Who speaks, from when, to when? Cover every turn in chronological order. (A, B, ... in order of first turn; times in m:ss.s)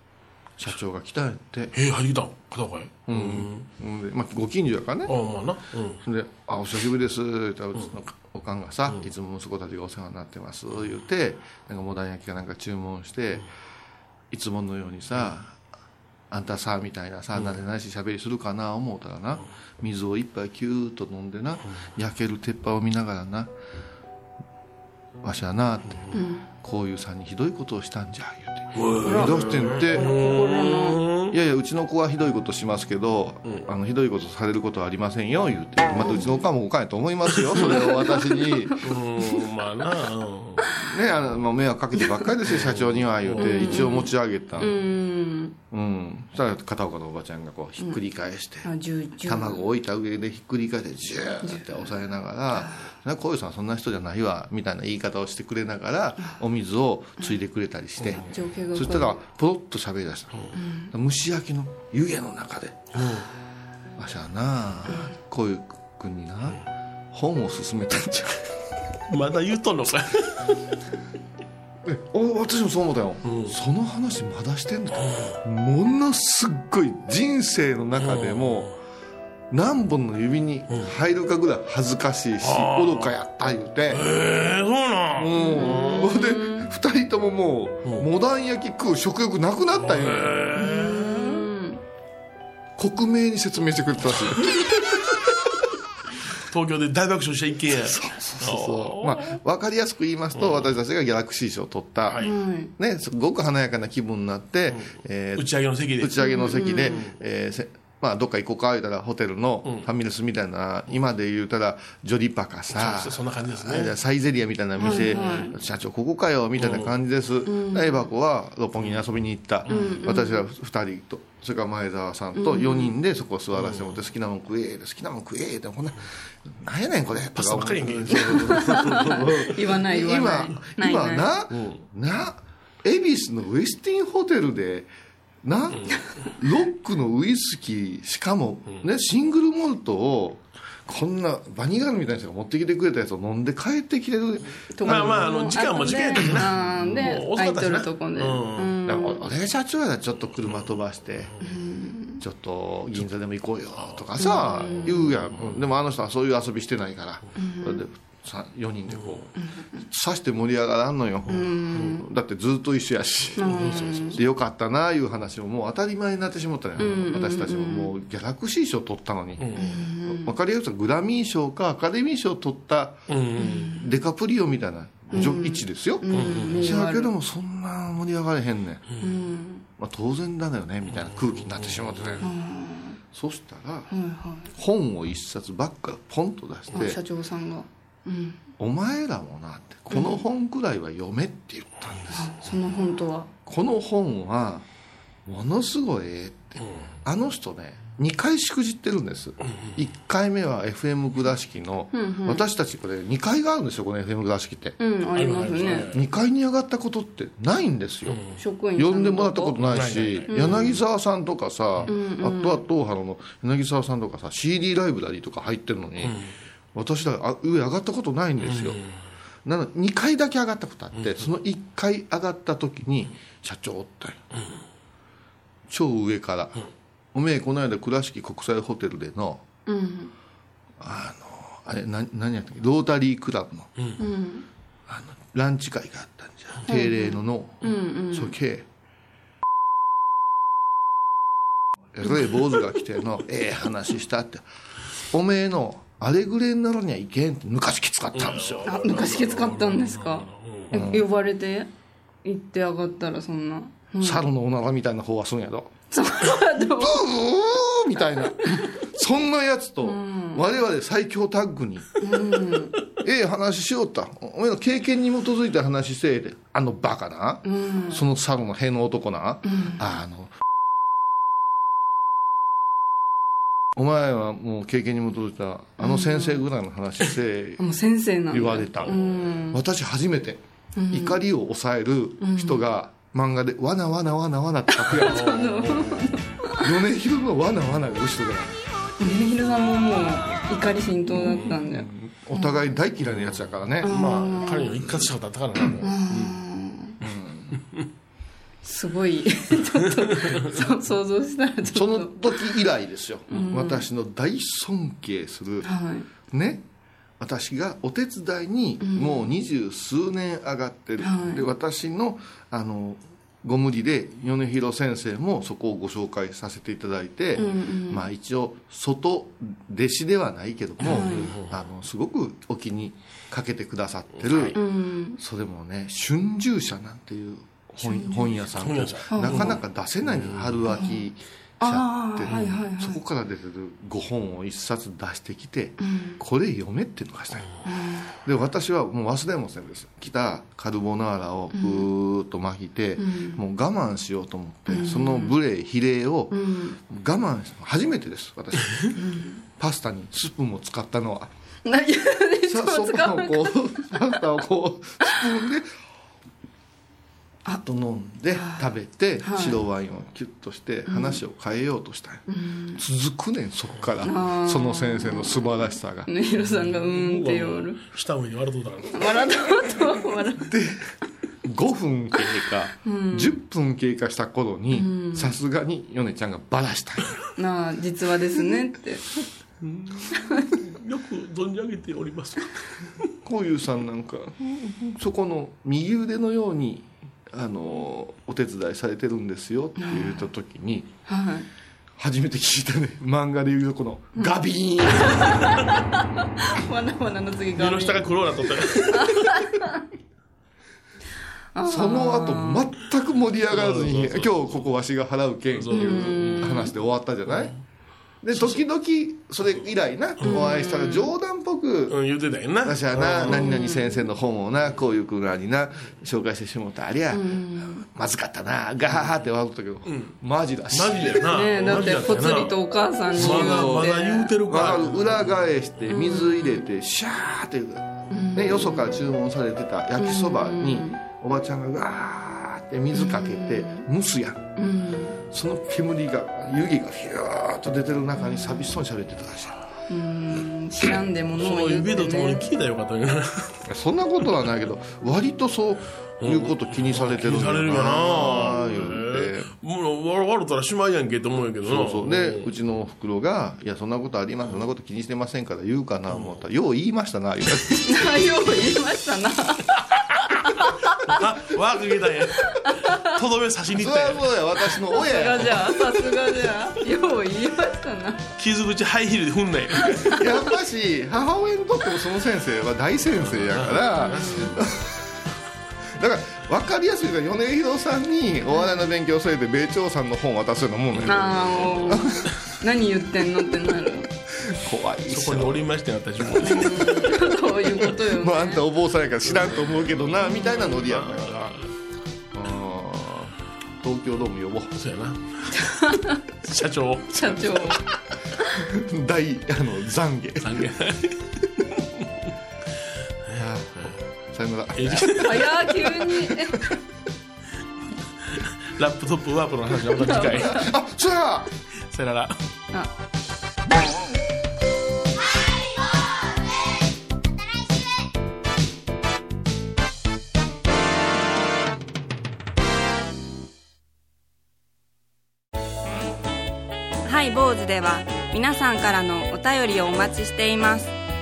0:00.6-0:01.7 A
0:01.7-0:03.7 B
0:03.1-0:05.2 A
0:05.1-0:06.0 B
0:06.0-0:13.5 A
0:14.3-0:15.6 A
0:16.3-0:23.5 A
0:25.2-0:30.2 A
0:25.9-0:26.2 B
0:26.1-0:26.5 C
0:28.8-0:31.4 B
0:29.0-0:31.0 C
0:31.3-0:39.2 A
0:37.4-0:37.9 B
0:37.6-0:38.8 C
0:38.8-0:40.7 B
0:40.8-0:44.7 A
0:42.5-0:43.9 B
0:43.4-0:45.6 C
0:45.7-0:48.7 A
0:48.6-0:49.6 C
0:49.2-1:02.9 A
0:51.4-0:52.0 C
0:52.6-0:52.9 C
0:58.0-0:58.4 B
0:58.3-0:59.2 C
1:00.5-1:00.9 C
1:02.9-1:03.3 B
1:04.0-1:08.5 A
1:09.1-1:10.7 B
1:11.8-1:18.7 A
1:13.2-1:13.6 B
1:14.9-1:15.4 B
1:18.0-1:18.8 B
1:19.5-1:24.1 A
1:20.7-1:20.9 B
1:22.4-1:23.1 B
1:23.9-1:26.1 B
1:25.1-1:30.4 A
1:25.4-1:26.7 C
1:29.8-1:31.4 B
1:30.6-1:31.8 C
1:32.8-1:34.6 A
1:36.4-1:39.4 B
1:37.7-1:45.4 A
1:40.4-1:40.7 B
1:42.1-1:42.4 B
1:42.2-1:42.7 C
1:44.7-1:46.2 B
1:46.0-2:14.9 A
1:46.2-1:47.0 C
1:46.8-1:47.2 B
1:52.7-1:54.0 B
1:54.8-1:55.5 C
1:54.8-1:55.4 B
1:56.6-1:56.9 B
1:57.5-1:58.1 C
1:58.8-1:59.0 B
1:59.7-2:00.0 B
1:59.7-2:00.4 C
2:02.4-2:02.9 C
2:03.6-2:04.0 B
2:07.3-2:09.1 B
2:08.1-2:11.3 C
2:11.5-2:11.8 B
2:15.4-2:25.3 A
2:15.7-2:16.2 B
2:24.7-2:29.2 C
2:24.8-2:28.8 B
2:28.8-2:31.3 A
2:31.4-2:32.2 C
2:32.2-2:53.0 A
2:33.8-2:35.6 B
2:34.2-2:35.0 C
2:37.4-2:37.8 C
2:38.9-2:39.2 B
2:39.4-2:39.8 C
2:41.3-2:42.1 C
2:43.4-2:44.2 C
2:43.4-2:44.2 B
2:46.8-2:48.0 C
2:49.4-2:49.7 B
2:49.5-2:50.4 C
2:53.1-2:53.8 B
2:53.4-2:53.9 C
2:53.8-2:58.8 A
2:55.1-2:57.1 C
2:56.1-2:56.7 B
2:59.0-2:59.6 C
2:59.8-3:02.3 A
3:00.9-3:02.3 B
3:02.2-3:03.0 C
3:03.1-3:03.9 A
3:03.9-3:04.5 C
3:04.6-3:07.0 A
3:06.7-3:08.4 C
3:08.6-3:12.3 A
3:09.9-3:10.2 C
3:12.1-3:13.3 C
3:13.5-3:14.7 A
3:15.3-3:24.8 A
3:19.5-3:19.8 B
3:21.9-3:22.4 C
3:24.8-3:25.9 C
3:25.1-3:26.1 B
3:25.8-3:28.2 A
3:28.1-3:28.4 B
3:28.4-3:29.6 C
3:28.8-3:38.8 A
3:29.6-3:30.7 B
3:30.3-3:30.8 C
3:31.9-3:32.6 C
3:36.0-3:36.3 B
3:38.4-3:38.9 B
3:39.4-3:44.2 A
3:45.7-3:49.4 A
3:49.7-3:50.1 C
3:50.8-3:53.7 A
3:54.0-3:54.5 C
3:54.9-3:58.7 A
3:56.7-3:58.4 C
4:02.0-4:04.4 A
4:05.1-4:08.9 A
4:08.2-4:10.7 B
4:08.7-4:11.7 C
4:10.7-4:11.1 A
4:12.2-4:14.3 C
4:14.0-4:15.7 A
4:15.9-4:17.1 C
4:16.8-4:21.9 A
4:19.8-4:20.5 C
4:22.0-4:22.8 C
4:23.0-4:30.4 A
4:27.4-4:28.0 C
4:29.4-4:29.8 C
4:33.8-4:37.6 A
4:35.8-4:36.4 C
4:37.6-4:39.6 C
4:38.3-4:39.0 A
4:38.8-4:39.2 B
4:39.5-4:45.4 A
4:40.8-4:41.2 C
4:42.2-4:42.6 C
4:44.8-4:46.6 C
4:45.0-4:46.2 B
4:46.6-4:48.6 A
4:49.0-4:52.6 C
4:51.2-4:51.6 B
4:51.3-4:54.0 A
4:53.1-4:56.4 B
4:53.8-4:54.9 C
4:55.8-4:57.0 C
4:57.0-4:57.6 A
4:58.6-5:02.6 C
5:01.7-5:05.7 A
5:03.3-5:03.9 C
5:05.6-5:06.1 C
5:06.2-5:06.7 A
5:07.2-5:24.6 A
5:08.8-5:09.3 C
5:11.0-5:11.4 C
5:17.4-5:18.1 C
5:20.8-5:21.3 C
5:20.8-5:21.5 B
5:24.2-5:24.6 B
5:24.6-5:25.2 C
5:25.2-5:37.5 A
5:27.8-5:28.3 C
5:28.4-5:30.7 B
5:29.1-5:29.6 C
5:30.7-5:31.0 C
5:31.6-5:33.0 C
5:32.3-5:32.6 B
5:35.8-5:36.2 C
5:37.6-5:38.1 C
5:38.2-5:49.0 A
5:41.5-5:41.9 C
5:43.0-5:43.4 C
5:44.7-5:45.4 C
5:46.3-5:46.8 C
5:48.9-5:49.4 C
5:49.6-5:51.3 A
5:51.6-5:54.2 C
5:52.4-5:55.7 A
5:57.6-6:02.2 A
5:58.3-5:58.7 C
5:59.2-5:59.6 C
6:00.9-6:01.2 C
6:02.3-6:02.8 C
6:02.8-6:06.1 A
6:04.0-6:07.8 C
6:06.4-6:09.2 B
6:08.9-6:10.5 C
6:10.5-6:10.9 A
6:11.4-6:17.2 A
6:12.8-6:13.4 C
6:14.7-6:15.4 C
6:17.4-6:19.0 C
6:19.6-6:23.0 B
6:20.1-6:20.5 C
6:23.2-6:30.9 A
6:29.8-6:30.3 C
6:31.1-6:31.5 C
6:32.0-6:35.4 A
6:34.9-6:38.1 C
6:37.6-6:39.5 B
6:38.8-6:39.8 C
6:41.6-6:42.7 C
6:41.6-6:47.5 A
6:43.5-6:44.6 B
6:45.5-6:46.7 B
6:45.7-6:46.7 C
6:47.3-6:47.6 B
6:48.2-6:52.0 A
6:50.2-6:50.5 B
6:50.2-6:51.1 C
6:51.9-6:53.6 B
6:52.6-7:01.3 A
6:53.2-6:54.0 C
6:57.1-6:57.8 C
6:59.9-7:00.2 B
7:00.7-7:02.6 B
7:01.3-7:04.3 C
7:03.1-7:05.3 B
7:03.1-7:14.4 A
7:05.9-7:06.6 C
7:08.1-7:09.0 C
7:10.0-7:11.0 C
7:12.9-7:13.9 C
7:14.6-7:15.2 C
7:15.3-7:19.6 A
7:19.9-7:22.4 C
7:21.4-7:23.6 B
7:23.7-7:29.5 A
7:26.2-7:32.5 B
7:31.6-7:38.0 A
7:36.1-7:36.4 B
7:37.9-7:39.8 C
7:39.9-7:40.5 B
7:40.5-7:41.2 C
7:41.0-7:44.4 B
7:42.7-7:43.1 C
7:43.7-7:45.8 A
7:44.9-7:48.3 C
7:48.4-7:50.2 B
7:49.9-7:55.1 A
7:53.3-7:54.6 B
7:54.0-7:54.6 C
7:55.9-8:02.3 A
8:01.0-8:02.0 B
8:01.1-8:04.1 C
8:04.4-8:05.6 A
8:05.1-8:07.1 B
8:06.4-8:08.6 C
8:06.4-8:06.9 A
8:07.8-8:11.5 A
8:09.3-8:09.9 B
8:10.8-8:11.7 B
8:12.3-8:14.7 A
8:14.8-8:15.7 B
8:15.6-8:16.2 C
8:16.4-8:17.8 B
8:17.1-8:17.8 C
8:18.5-8:20.7 A
8:20.4-8:22.0 B
8:23.3-8:24.0 B
8:23.3-8:26.3 A
8:24.7-8:25.5 B
8:25.1-8:26.7 C
8:28.3-8:30.7 B
8:30.0-8:30.6 C
8:30.3-8:31.5 A
8:31.9-8:32.4 B
8:47.0-8:51.0 C